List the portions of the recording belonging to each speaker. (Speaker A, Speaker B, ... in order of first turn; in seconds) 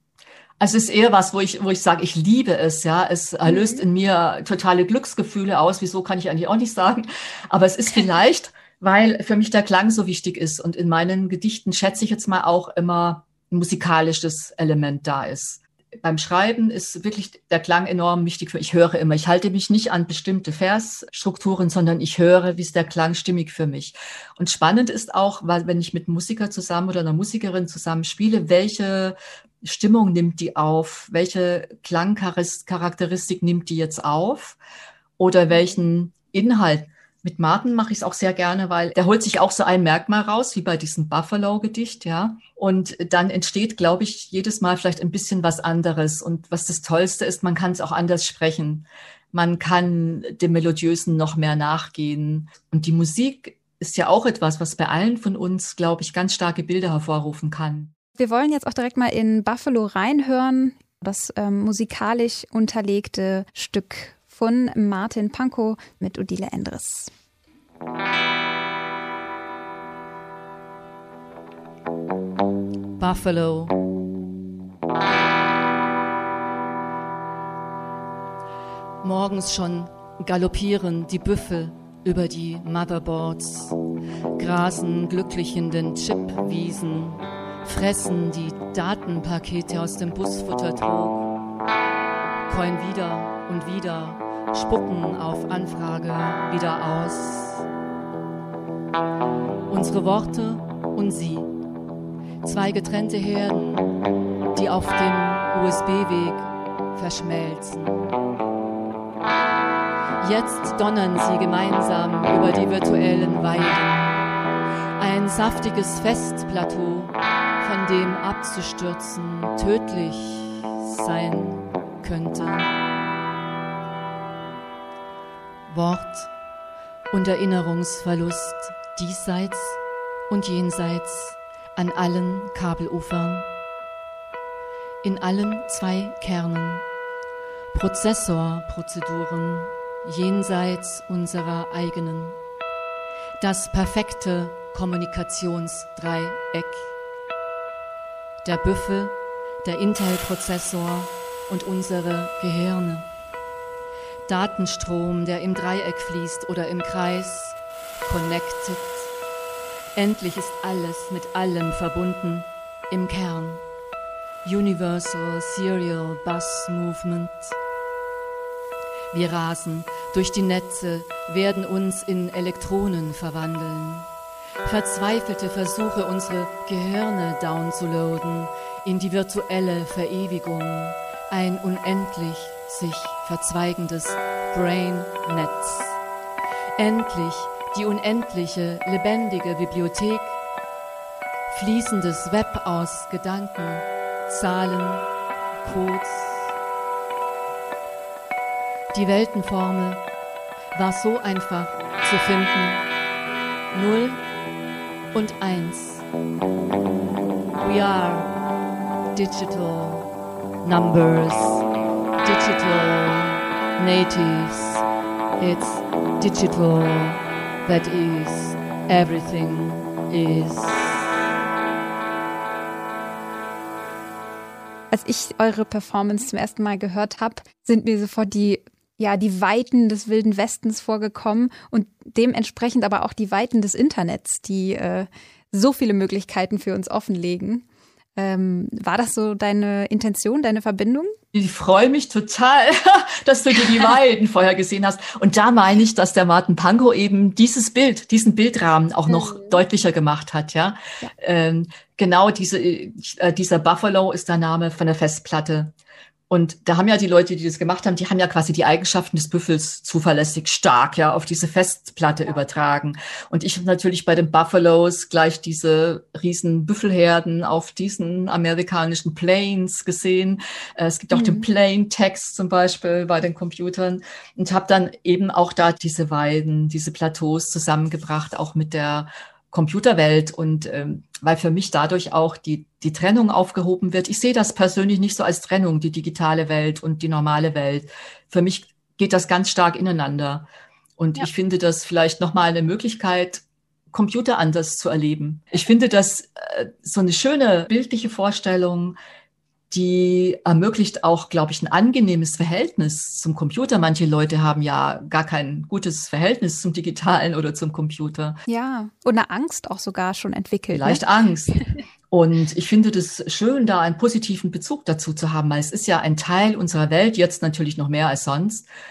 Speaker A: 0.6-34.6, 35.2-57.9, 241.3-255.7, 256.3-299.0, 299.7-308.4, 310.7-311.6, 312.1-318.7
Speaker B: 3.5-3.8, 58.2-67.1, 224.9-237.7, 238.2-241.2, 249.1-249.5, 271.1-271.5, 308.5-311.0
Speaker C: 73.0-73.8, 79.0-83.8, 84.4-91.3, 92.5-97.6, 99.7-101.5, 102.4-103.9, 104.5-108.1, 110.2-114.1, 115.0-122.7, 125.7-126.3, 127.1-129.8, 130.3-133.5, 135.0-136.9, 137.7-142.4, 143.4-146.9, 148.4-153.1, 154.3-159.1, 160.0-163.6, 164.4-167.6, 169.1-174.1, 174.6-186.0, 186.8-190.4, 191.5-195.1, 195.6-196.5, 198.9-200.1, 200.7-202.9, 203.7-204.2, 205.1-206.1, 207.6-208.3, 209.1-210.1, 210.6-211.7, 212.2-214.8, 215.4-221.1